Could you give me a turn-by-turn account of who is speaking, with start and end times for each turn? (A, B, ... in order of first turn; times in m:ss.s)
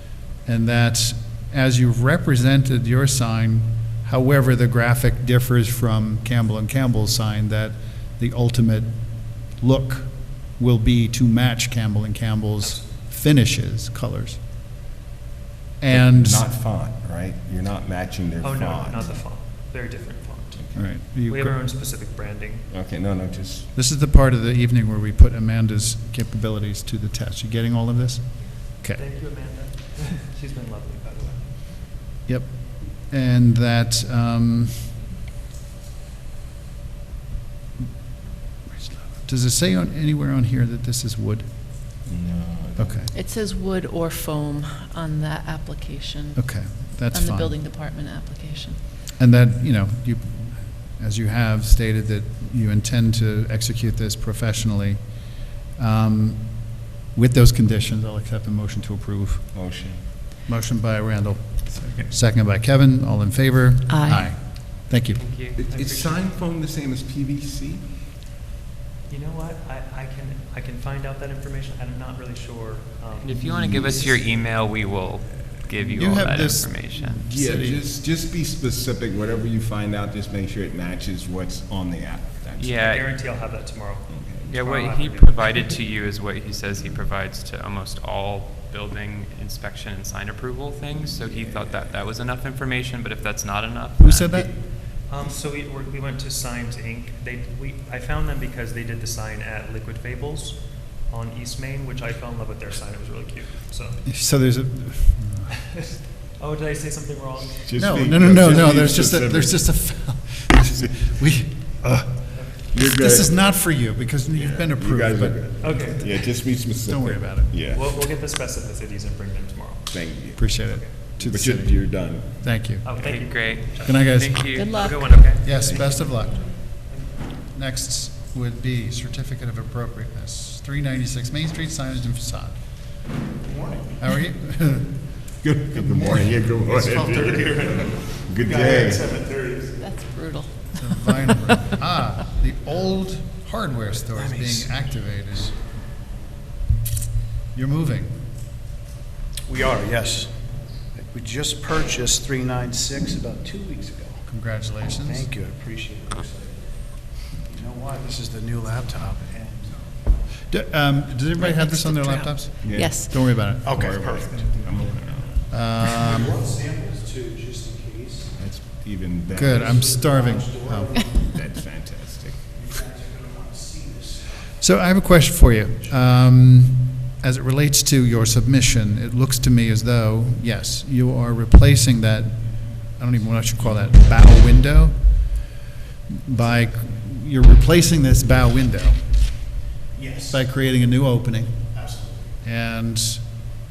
0:00.4-0:14.4 A
0:12.6-0:12.8 B
0:15.8-0:16.5 A
0:15.9-0:19.2 C
0:18.4-0:22.7 B
0:20.6-0:21.0 C
0:20.7-0:21.6 A
0:22.7-0:23.7 C
0:23.7-0:29.0 A
0:29.0-0:31.8 B
0:32.3-0:34.9 A
0:38.7-0:41.5 A
0:42.0-0:43.1 C
0:42.8-0:43.1 A
0:43.1-0:48.8 D
0:46.3-0:47.6 A
0:49.2-0:59.8 A
0:59.5-1:00.0 C
1:00.5-1:05.2 A
1:03.9-1:04.3 D
1:05.1-1:05.7 E
1:05.6-1:07.9 C
1:05.6-1:06.3 B
1:09.1-1:14.1 B
1:13.2-1:17.3 E
1:13.3-1:14.3 C
1:15.9-1:17.8 A
1:17.3-1:22.9 C
1:22.6-1:23.0 E
1:22.8-1:25.6 B
1:24.1-1:24.5 C
1:24.4-1:34.5 E
1:31.0-1:32.1 C
1:34.0-1:34.6 A
1:34.5-1:44.0 B
1:44.0-1:45.6 A
1:46.3-1:47.6 B
1:47.6-1:50.0 C
1:47.8-1:57.5 A
1:52.3-1:52.6 B
1:52.7-1:58.0 C
1:55.6-1:56.1 B
1:57.7-2:01.0 B
1:59.9-2:03.2 C
2:00.4-2:02.9 A
2:02.8-2:05.6 B
2:03.0-2:04.8 E
2:03.6-2:06.9 A
2:04.6-2:05.1 D
2:05.5-2:06.0 C
2:06.9-2:07.1 B
2:07.5-2:12.8 A
2:13.4-2:14.0 F
2:14.0-2:15.0 A
2:15.4-2:19.1 C
2:15.7-2:16.5 A
2:16.7-2:19.8 F
2:19.8-2:21.5 D
2:20.8-2:25.6 A
2:24.1-2:24.7 F
2:27.5-2:28.2 A
2:29.5-2:30.4 F
2:30.9-2:39.9 F
2:34.3-2:35.3 A
2:40.5-2:43.8 A
2:41.4-2:43.3 D
2:42.6-2:45.8 C
2:43.4-2:44.8 F
2:45.5-2:46.3 A
2:45.9-2:48.4 F
2:48.4-2:49.9 C
2:49.3-2:51.0 A
2:49.4-2:51.4 F
2:51.2-2:52.5 C
2:52.5-2:54.6 F
2:54.6-3:05.4 A
3:06.1-3:09.4 A
3:06.4-3:06.7 F
3:09.9-3:10.4 F
3:10.3-3:11.7 A
3:11.7-3:12.4 F
3:12.4-3:13.4 A